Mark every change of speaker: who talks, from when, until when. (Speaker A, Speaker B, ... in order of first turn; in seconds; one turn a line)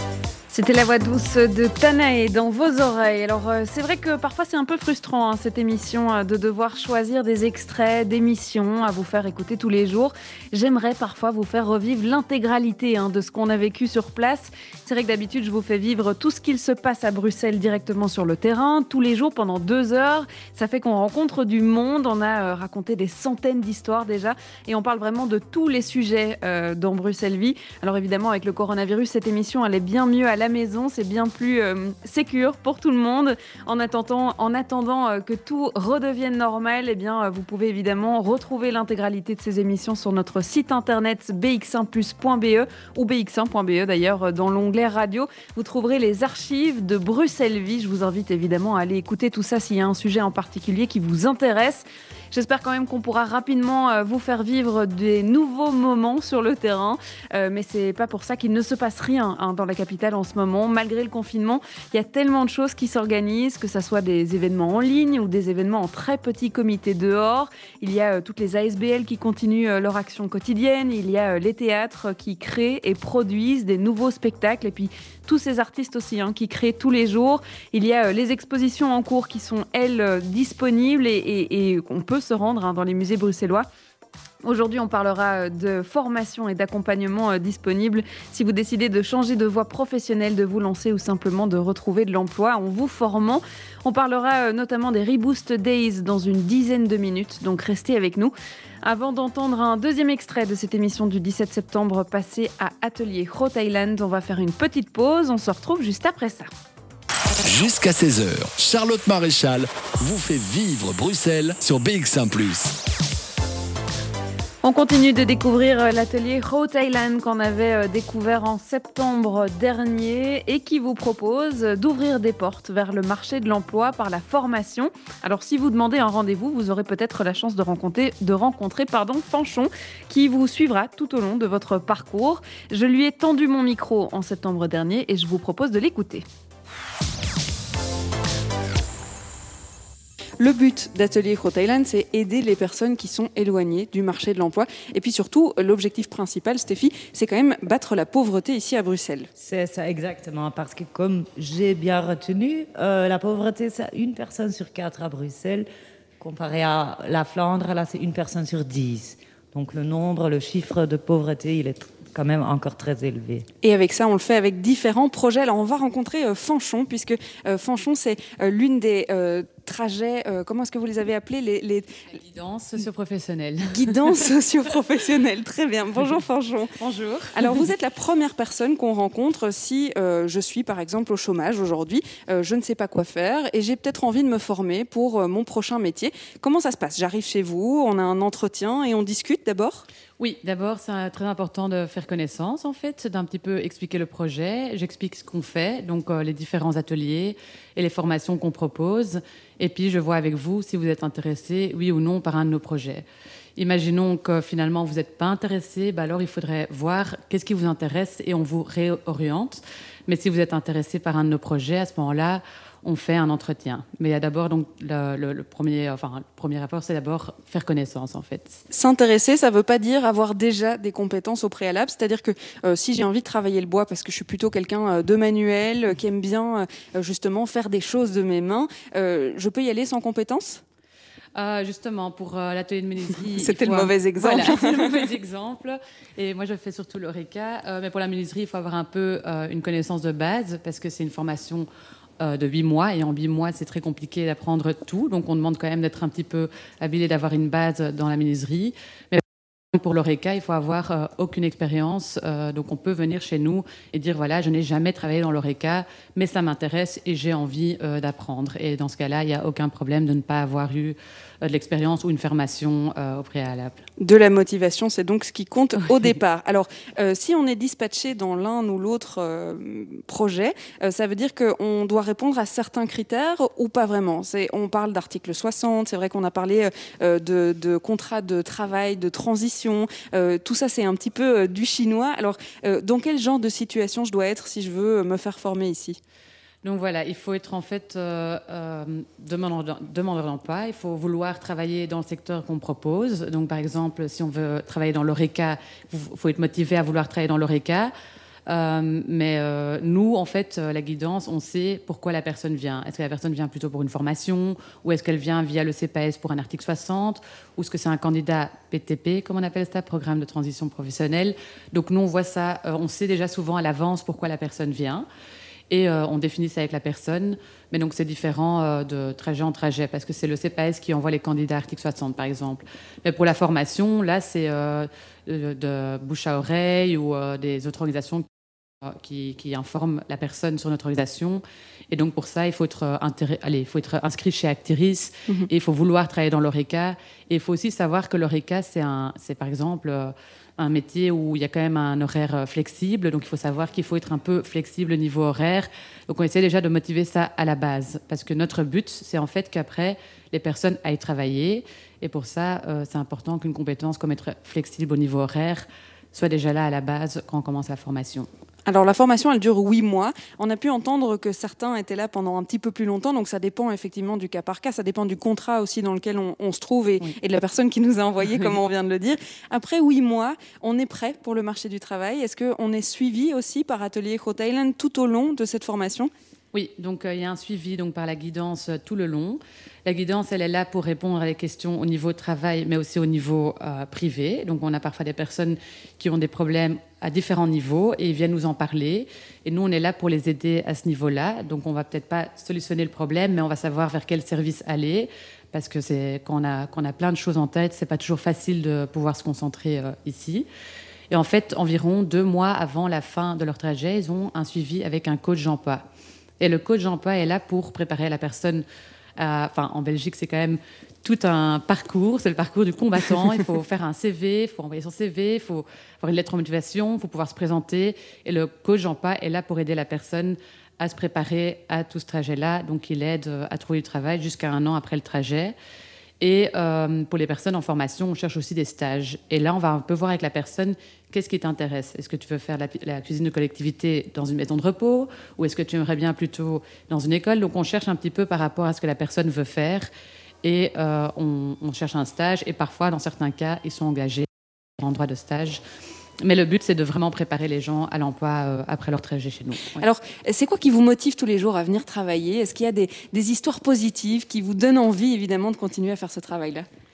Speaker A: 0.5-83.7
Speaker A: 84.4-106.5
Speaker B: 107.4-112.8
Speaker A: 114.6-136.2
Speaker C: 140.4-149.3
Speaker D: 149.4-155.7
Speaker D: 156.2-163.5
Speaker C: 163.6-172.0
Speaker E: 172.1-174.3
Speaker C: 173.7-176.7
Speaker E: 176.8-177.7
Speaker C: 177.3-189.9
Speaker E: 190.2-203.1
Speaker E: 203.6-218.6
Speaker C: 218.7-230.6
Speaker E: 231.3-241.7
Speaker C: 233.4-235.0
Speaker E: 242.2-249.2
Speaker E: 249.7-263.8
Speaker C: 264.0-286.0
Speaker E: 286.6-297.9
Speaker E: 298.5-315.1
Speaker E: 315.7-328.3
Speaker E: 328.8-358.3
Speaker C: 358.7-376.1
Speaker E: 368.3-368.6
Speaker E: 376.5-400.5
Speaker E: 401.1-405.9
Speaker E: 406.4-408.6
Speaker E: 409.2-425.6
Speaker E: 426.2-439.9
Speaker E: 440.4-444.3
Speaker E: 444.8-445.6
Speaker E: 446.2-449.8
Speaker C: 449.8-456.7